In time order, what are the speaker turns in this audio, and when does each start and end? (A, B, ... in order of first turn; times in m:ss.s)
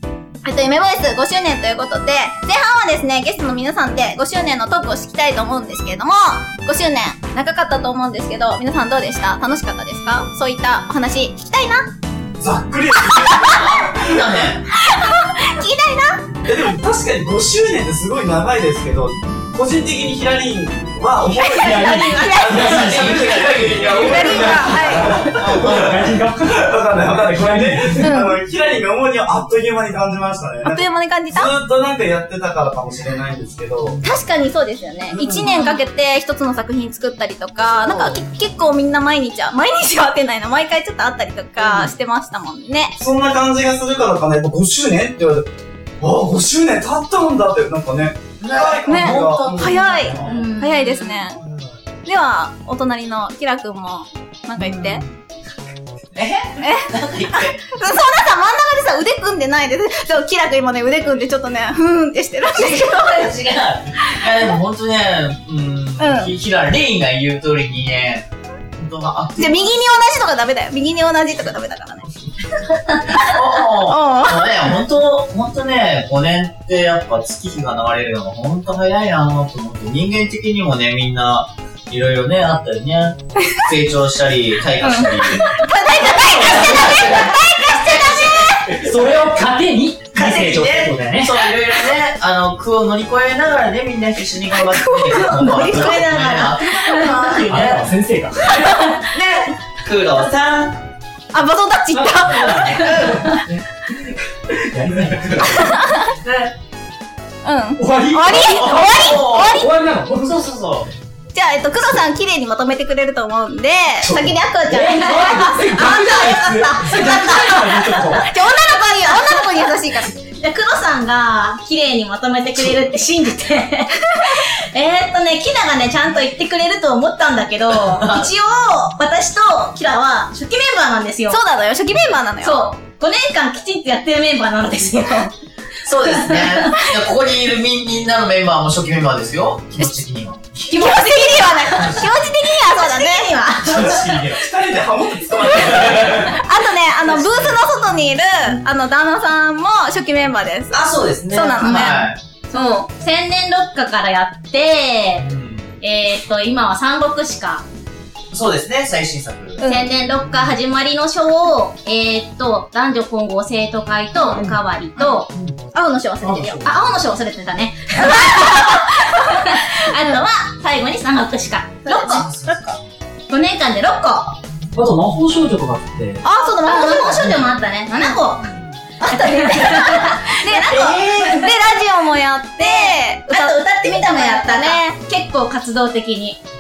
0:00.4-0:11.9 A
0:12.4-0:14.5 B
0:13.1-0:13.6 A
0:13.5-0:14.6 C
0:14.7-0:16.2 A
0:16.4-0:34.0 B
0:21.4-0:22.9 A
0:21.5-0:28.1 D
0:22.5-0:24.6 C
0:24.0-0:25.2 A
0:25.4-0:25.7 C
0:28.0-0:28.4 A
0:30.6-0:31.5 A
0:34.0-0:43.0 A
0:35.1-0:35.5 B
0:35.4-0:35.8 E
0:41.6-0:41.9 C
0:43.0-0:50.1 B
0:48.4-0:50.5 C
0:48.9-0:51.4 A
0:50.2-0:51.2 E
0:51.4-0:51.7 C
0:52.0-0:55.0 A
0:54.6-0:55.1 C
0:56.1-0:57.6 C
0:56.6-1:03.3 A
1:02.5-1:09.8 C
1:04.1-1:04.6 A
1:06.0-1:06.3 A
1:09.4-1:12.1 A
1:12.9-1:14.6 A
1:13.1-1:28.9 C
1:24.8-1:28.7 A
1:26.0-1:27.3 D
1:28.7-1:31.5 D
1:30.2-1:37.9 C
1:34.8-1:36.1 A
1:35.1-1:37.4 E
1:36.7-1:37.1 A
1:37.4-1:38.6 D
1:38.5-1:39.5 A
1:39.4-1:40.8 C
1:41.3-1:43.2 A
1:41.9-1:45.8 D
1:42.4-1:43.4 C
1:45.5-1:46.1 A
1:46.2-1:46.5 C
1:47.4-1:49.7 A
1:47.8-1:50.3 D
1:48.3-1:50.9 C
1:51.3-2:00.2 A
1:54.1-1:58.3 D
1:55.8-1:56.2 E
1:56.9-1:57.2 E
1:58.9-1:59.4 E
2:00.4-2:11.4 E
2:07.9-2:08.3 C
2:11.3-2:12.7 A
2:12.4-2:15.3 E
2:15.8-2:20.7 C
2:16.0-2:16.7 E
2:20.7-2:23.4 A
2:20.9-2:24.2 E
2:21.8-2:22.3 C
2:23.6-2:26.4 B
2:23.8-2:24.4 C
2:25.7-2:32.9 A
2:27.1-2:27.6 C
2:30.7-2:32.2 C
2:31.6-2:32.0 E
2:32.5-2:35.3 E
2:35.2-2:35.7 C
2:35.8-2:37.6 E
2:38.3-2:39.6 C
2:39.6-2:39.9 A
2:39.7-2:45.3 E
2:45.0-2:46.7 A
2:46.2-2:46.7 D
2:46.6-2:52.3 E
2:48.0-2:50.2 A
2:51.9-2:52.2 A
2:52.0-2:52.8 C
2:53.3-2:54.4 E
2:54.8-2:56.2 D
2:56.2-2:57.3 A
2:56.4-2:58.5 E
2:59.0-3:05.0 A
2:59.1-3:01.5 E
3:00.8-3:01.3 C
3:02.7-3:06.4 E